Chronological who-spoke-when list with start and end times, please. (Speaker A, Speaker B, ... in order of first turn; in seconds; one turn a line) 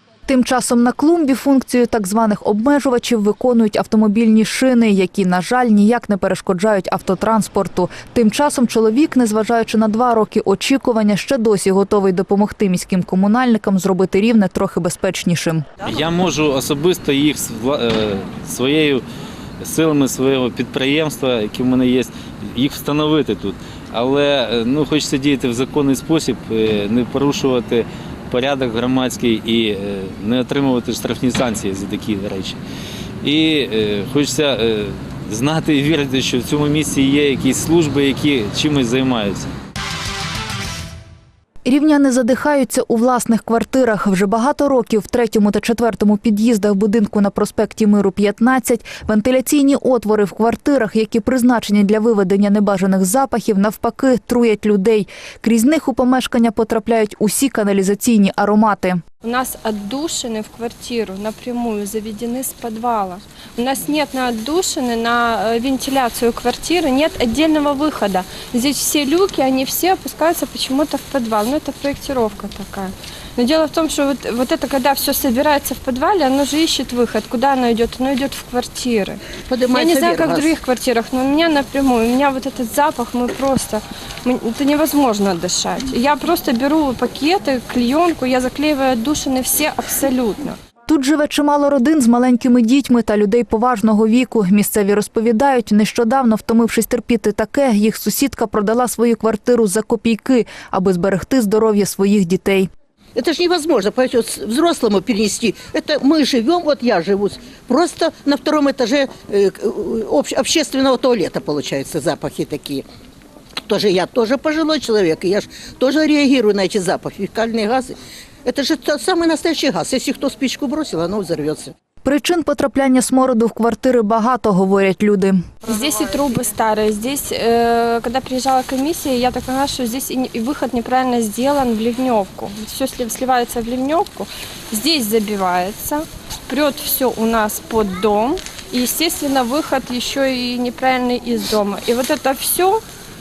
Speaker A: 0.3-15.7
Speaker B: 15.8-19.0
Speaker B: 19.6-32.6
Speaker B: 33.2-39.5
Speaker A: 41.6-59.0
Speaker C: 59.2-79.2
Speaker D: 79.5-80.5
Speaker C: 79.7-90.6
Speaker A: 90.9-102.7
Speaker D: 103.1-112.8
Speaker D: 113.7-121.7
Speaker A: 122.0-125.5
Speaker C: 125.6-142.8